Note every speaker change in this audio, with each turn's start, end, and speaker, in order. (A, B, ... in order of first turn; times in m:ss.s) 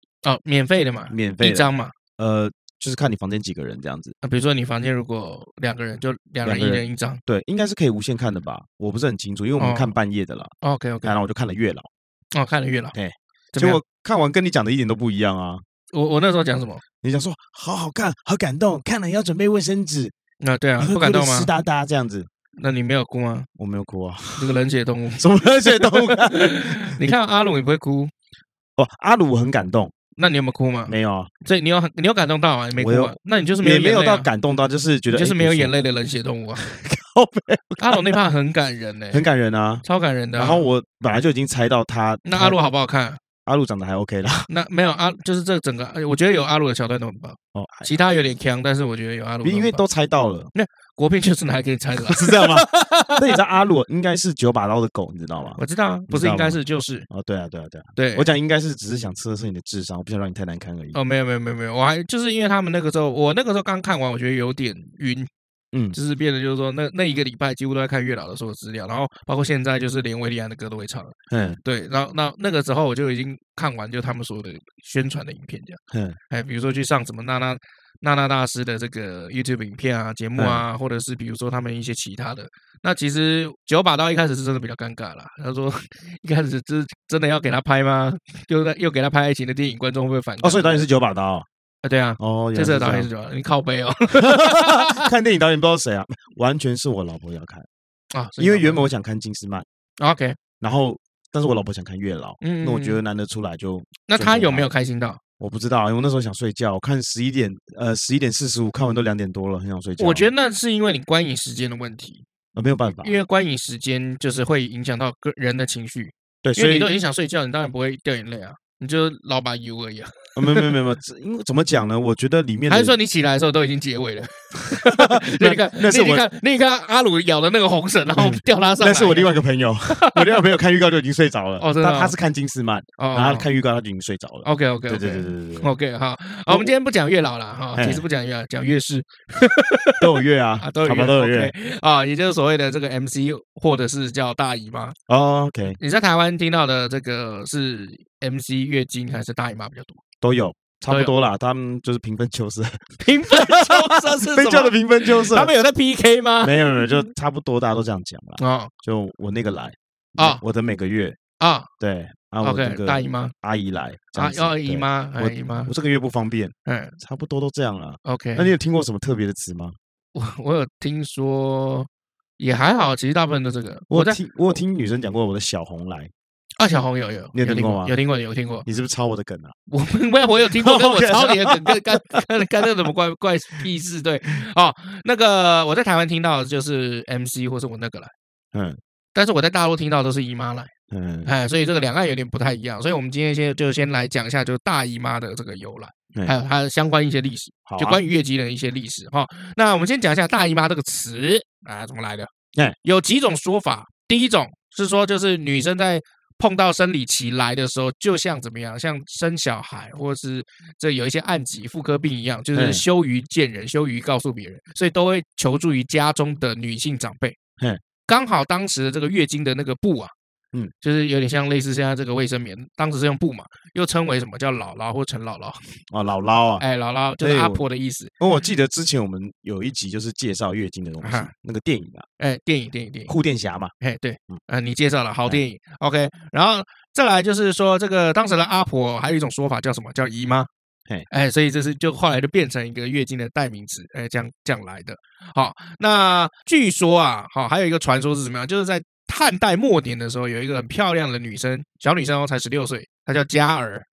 0:00.2-0:01.9 A
0:01.1-0:04.1 B
0:04.2-0:07.2 A
0:06.4-0:11.9 B
0:09.6-0:09.9 A
0:10.6-0:11.2 A
0:12.3-0:13.0 A
0:12.9-0:15.6 B
0:13.5-0:13.8 A
0:15.9-0:16.8 A
0:17.0-0:20.1 B
0:20.4-0:21.5 A
0:20.8-0:22.3 B
0:22.6-0:23.5 A
0:23.6-0:24.6 B
0:24.4-0:28.1 A
0:25.2-0:27.1 B
0:28.8-0:29.9 B
0:30.2-0:34.3 A
0:30.9-0:31.3 B
0:32.7-0:35.7 B
0:35.1-0:36.6 A
0:36.6-0:38.2 B
0:37.8-0:39.2 A
0:39.1-0:42.6 B
0:39.8-0:40.6 A
0:42.2-0:43.2 A
0:43.4-0:44.5 B
0:44.5-0:49.8 A
0:47.5-0:47.9 B
0:49.4-0:50.5 B
0:50.5-0:53.2 A
0:52.0-1:01.0 B
0:55.6-0:57.0 A
0:58.0-0:58.3 A
1:00.9-1:05.3 A
1:05.9-1:15.8 A
1:11.3-1:11.6 B
1:15.9-1:16.2 B
1:16.3-1:30.9 A
1:20.4-1:20.6 B
1:30.4-1:31.4 B
1:31.8-1:35.1 A
1:32.2-1:33.1 B
1:34.1-1:37.7 B
1:38.1-1:38.9 A
1:38.4-1:39.6 B
1:40.0-1:40.4 A
1:40.6-1:44.7 B
1:42.4-1:43.0 A
1:44.1-1:45.2 A
1:45.4-1:50.3 B
1:50.0-1:52.2 A
1:52.5-1:53.1 B
1:52.9-2:00.7 A
1:56.4-1:56.9 B
2:00.4-2:02.9 B
2:02.7-2:09.3 A
2:04.8-2:06.2 B
2:08.2-2:15.7 B
2:09.9-2:10.4 A
2:11.6-2:12.1 A
2:13.0-2:13.5 A
2:14.4-2:25.0 A
2:17.8-2:18.0 B
2:20.0-2:21.5 B
2:25.1-2:25.8 B
2:25.7-2:30.0 A
2:30.2-2:35.5 B
2:30.9-2:31.2 A
2:33.0-2:37.0 A
2:36.4-2:41.2 B
2:38.4-2:38.7 A
2:40.2-2:40.4 A
2:41.4-2:41.7 A
2:41.8-2:49.8 B
2:42.4-2:43.3 A
2:44.2-2:45.7 A
2:46.6-2:47.0 A
2:48.0-2:48.5 A
2:50.1-2:54.2 A
2:53.9-2:56.1 B
2:56.6-2:58.6 A
2:57.3-2:57.9 B
2:58.6-2:59.5 B
2:59.7-3:08.1 A
3:00.5-3:02.2 B
3:08.5-3:08.8 B
3:09.1-3:10.7 A
3:10.9-3:11.3 B
3:11.2-3:22.3 A
3:17.7-3:18.0 B
3:22.8-3:37.4 A
3:32.5-3:32.8 B
3:38.1-3:40.1 A
3:40.8-3:45.8 A
3:45.9-3:46.6 B
3:46.6-3:48.1 A
3:47.2-3:47.6 B
3:48.2-3:52.1 B
3:51.0-3:51.3 A
3:52.2-3:53.1 A
3:53.1-3:53.7 B
3:53.8-4:00.5 A
4:01.1-4:13.8 A